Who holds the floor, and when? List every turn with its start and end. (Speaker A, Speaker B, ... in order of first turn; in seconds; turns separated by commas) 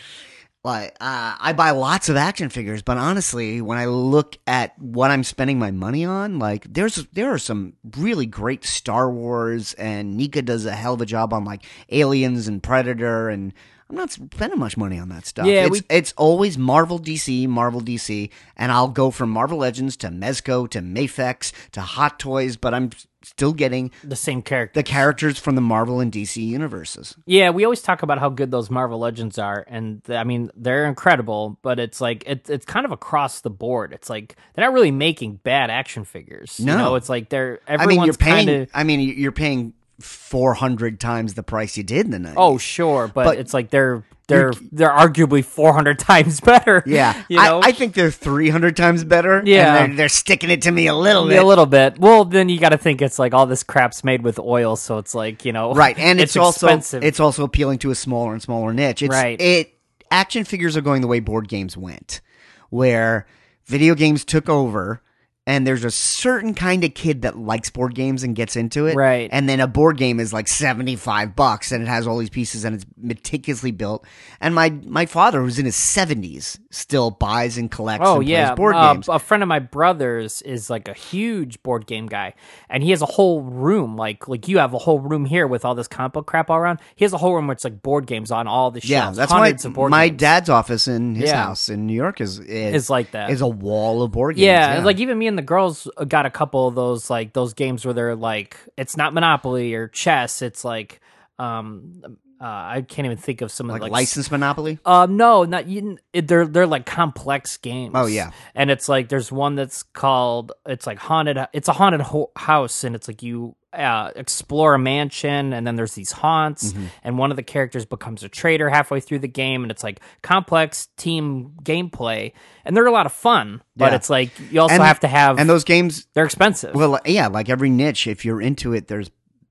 Speaker A: 0.6-23.9, Speaker B: 15.4-15.8, Speaker B: 24.0-24.9, Speaker A: 24.7-27.1, Speaker B: 27.3-38.7, Speaker A: 36.6-37.0, Speaker A: 37.8-42.6, Speaker B: 42.4-47.7, Speaker A: 44.3-44.6, Speaker A: 46.8-51.5, Speaker B: 49.4-49.9, Speaker B: 51.2-57.1, Speaker A: 55.7-79.1, Speaker B: 59.0-59.4, Speaker B: 68.9-69.3, Speaker B: 78.0-90.2, Speaker A: 88.8-94.9, Speaker B: 91.2-91.5, Speaker B: 92.7-93.3, Speaker B: 94.3-104.1, Speaker A: 103.7-104.8, Speaker B: 104.8-125.5, Speaker A: 107.9-108.3, Speaker A: 116.6-116.9, Speaker A: 123.8-124.0, Speaker A: 124.7-126.1, Speaker B: 126.1-126.8, Speaker A: 126.7-129.1